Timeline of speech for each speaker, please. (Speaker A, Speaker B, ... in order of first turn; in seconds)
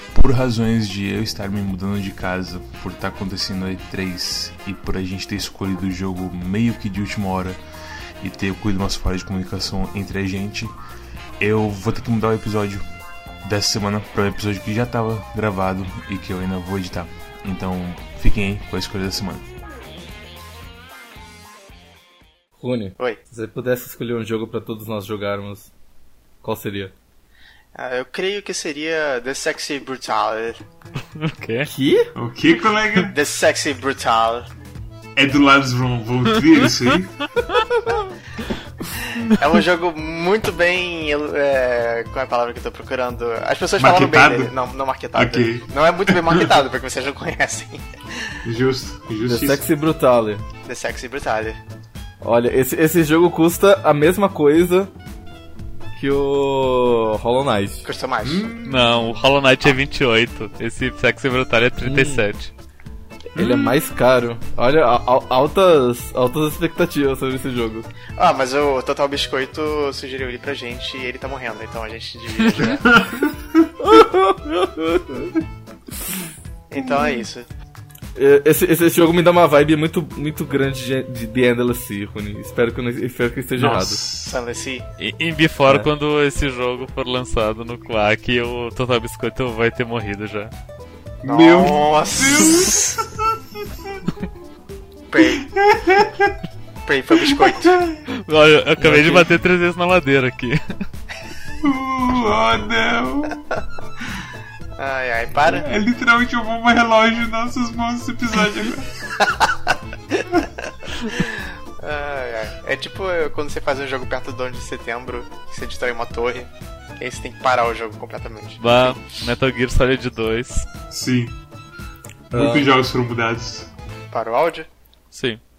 Speaker A: 0.1-7.6, 8.2-10.8, 11.4-12.8, 13.4-19.4
Speaker B: 22.6-25.7, 26.4-26.9, 31.6-32.1, 49.2-50.4, 52.2-54.9, 56.0-57.9, 61.8-62.2, 63.4-67.9, 73.8-75.3, 78.1-84.0, 98.8-99.3, 122.3-122.7
Speaker C: 27.8-30.6, 33.1-34.5, 39.2-48.3, 50.7-51.6, 57.9-58.5, 68.2-72.9, 76.7-77.5, 84.1-84.8, 91.2-92.9, 95.1-95.4, 96.8-97.8, 104.8-105.7, 109.2-109.5, 110.1-119.0, 124.1-124.7
Speaker D: 31.2-31.7, 58.6-62.5, 85.0-90.5, 98.1-100.6, 118.6-120.7, 125.1-125.4
Speaker E: 32.1-33.1, 35.2-37.1, 43.8-44.5, 45.1-46.6, 48.4-49.6, 58.2-59.2, 63.4-63.8, 72.8-73.5, 83.5-84.3, 91.2-93.9, 95.3-96.3, 97.2-98.0, 101.6-103.4, 105.4-108.9, 120.9-121.4, 122.3-123.7